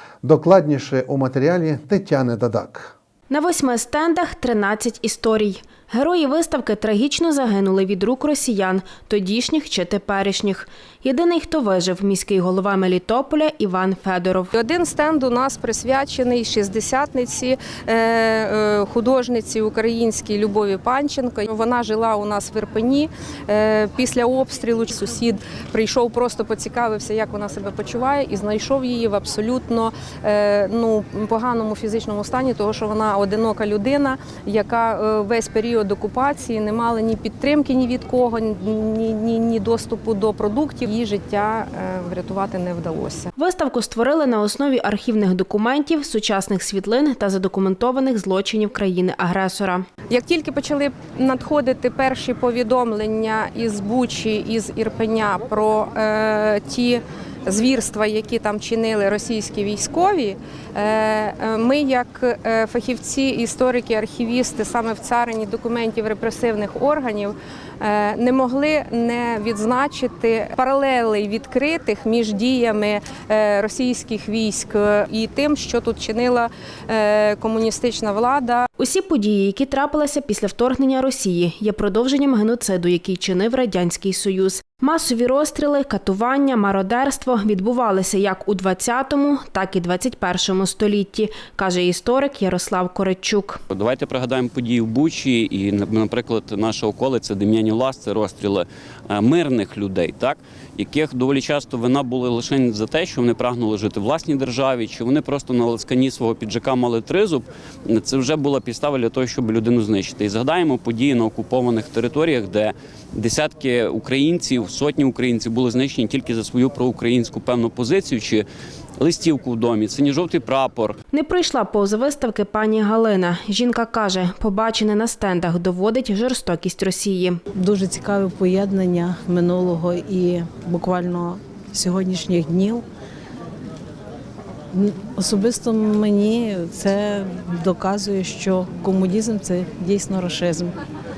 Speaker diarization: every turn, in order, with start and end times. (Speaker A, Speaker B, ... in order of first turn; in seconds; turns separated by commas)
Speaker A: 0.2-2.9, Speaker B: 3.3-14.5, Speaker C: 14.5-43.3, Speaker B: 43.4-49.8, Speaker C: 50.1-78.7, Speaker B: 78.8-93.6, Speaker D: 93.7-118.4, Speaker D: 119.0-121.0, Speaker B: 121.1-127.4, Speaker E: 127.5-132.8, Speaker E: 134.7-140.8